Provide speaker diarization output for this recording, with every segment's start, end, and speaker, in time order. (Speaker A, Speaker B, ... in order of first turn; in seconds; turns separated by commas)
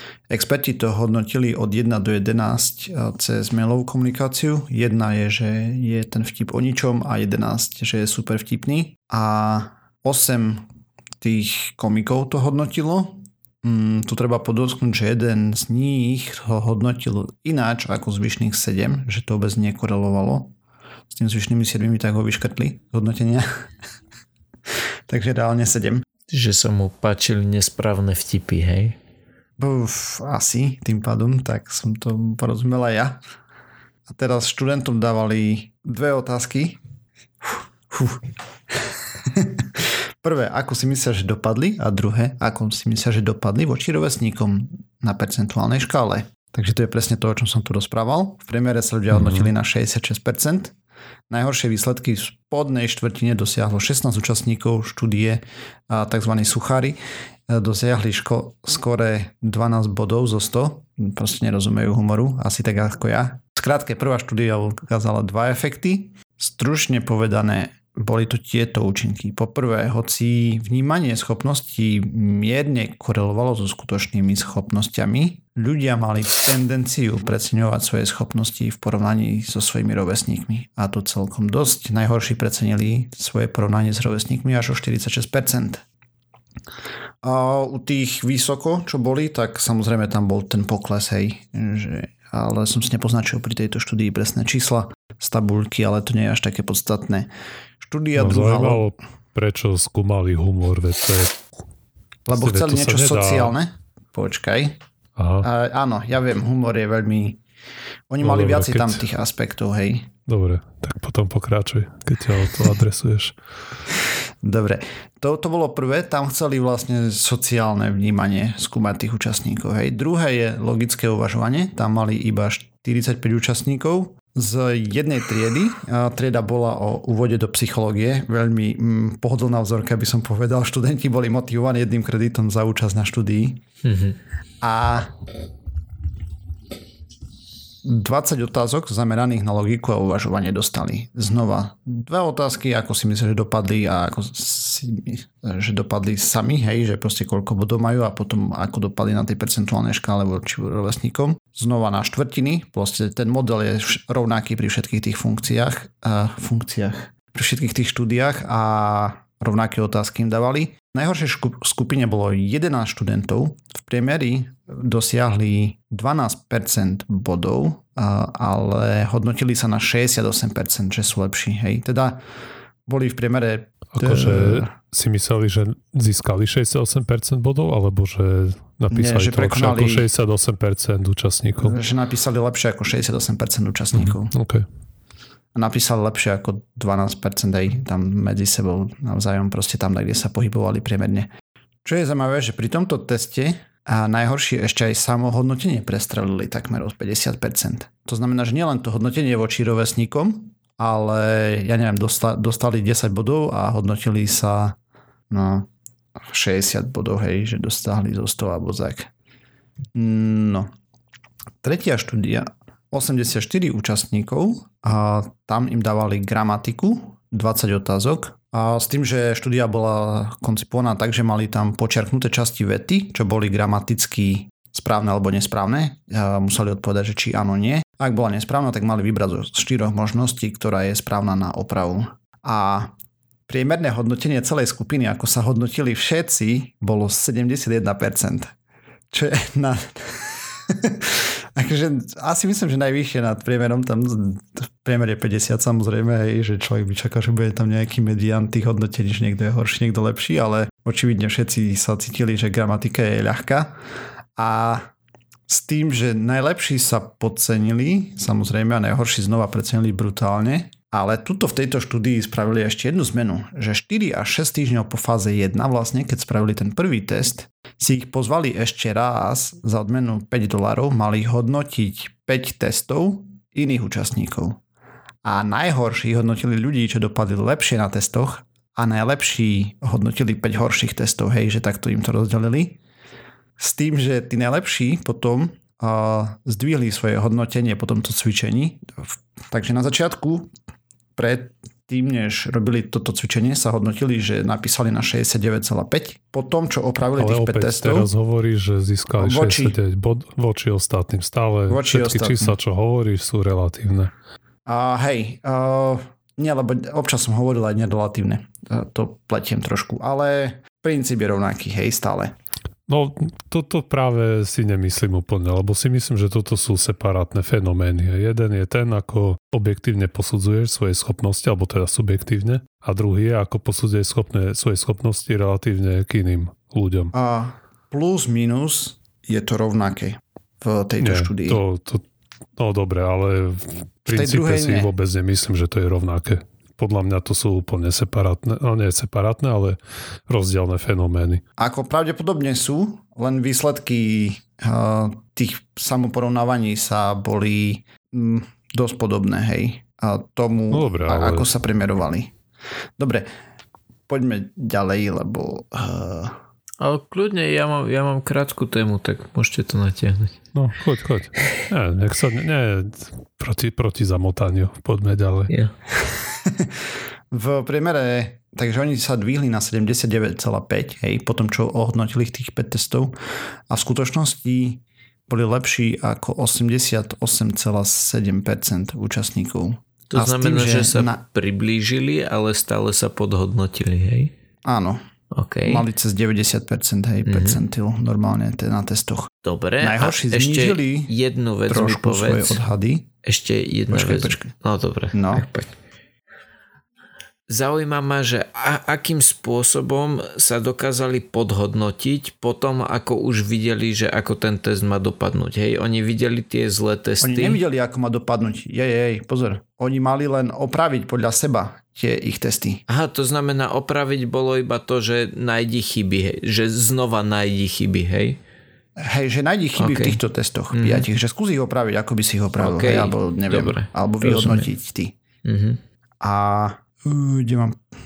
Speaker A: 0.3-10.6, Speaker A: 11.2-20.5, Speaker A: 21.1-23.4, Speaker A: 25.1-26.0, Speaker B: 26.3-29.0, Speaker A: 29.6-33.2, Speaker A: 34.1-36.8, Speaker A: 37.4-50.7, Speaker C: 49.1-49.5, Speaker A: 51.3-57.0, Speaker A: 57.5-85.8, Speaker A: 87.2-97.3, Speaker A: 97.8-98.8, Speaker C: 98.1-101.4, Speaker C: 102.3-103.5, Speaker A: 102.3-104.8, Speaker C: 105.2-105.5, Speaker A: 105.4-107.4, Speaker A: 108.1-110.1, Speaker C: 108.2-109.0, Speaker C: 110.3-113.3, Speaker A: 114.4-133.6, Speaker B: 133.8-134.2, Speaker A: 134.6-135.1, Speaker A: 137.8-172.2, Speaker A: 172.8-174.7, Speaker C: 173.9-181.8, Speaker A: 178.9-180.1, Speaker A: 181.6-184.3, Speaker C: 183.9-184.6, Speaker A: 185.5-191.3, Speaker A: 191.8-204.8, Speaker A: 205.3-205.7, Speaker A: 206.3-209.1, Speaker A: 209.9-210.7, Speaker A: 211.6-232.9, Speaker A: 233.5-238.5, Speaker A: 239.1-253.8, Speaker A: 254.3-254.9, Speaker A: 255.5-274.6, Speaker A: 275.2-282.8, Speaker A: 283.6-290.5, Speaker A: 291.1-298.1, Speaker C: 297.1-304.1, Speaker A: 299.2-299.8, Speaker A: 301.7-302.6, Speaker A: 304.6-312.3, Speaker C: 312.9-327.1, Speaker A: 327.1-331.6, Speaker C: 331.0-332.0, Speaker C: 332.6-341.4, Speaker A: 334.1-334.9, Speaker A: 341.6-352.3, Speaker C: 350.7-351.5, Speaker A: 353.0-353.2, Speaker A: 354.1-356.4, Speaker B: 356.8-360.4, Speaker C: 360.5-365.5, Speaker A: 366.0-366.8, Speaker A: 367.3-373.1, Speaker A: 373.7-381.2, Speaker B: 380.1-384.3, Speaker A: 384.6-385.0, Speaker B: 385.3-385.9, Speaker A: 385.6-391.1, Speaker B: 387.2-387.6, Speaker B: 389.4-392.6, Speaker A: 391.7-393.1, Speaker B: 393.2-395.7, Speaker A: 393.9-394.5, Speaker A: 395.1-395.4, Speaker B: 397.5-407.6, Speaker A: 407.2-412.8, Speaker B: 412.9-418.4, Speaker A: 419.0-425.1, Speaker B: 419.8-420.2, Speaker B: 420.7-421.1, Speaker B: 422.6-424.7, Speaker B: 425.4-425.8, Speaker A: 426.2-427.8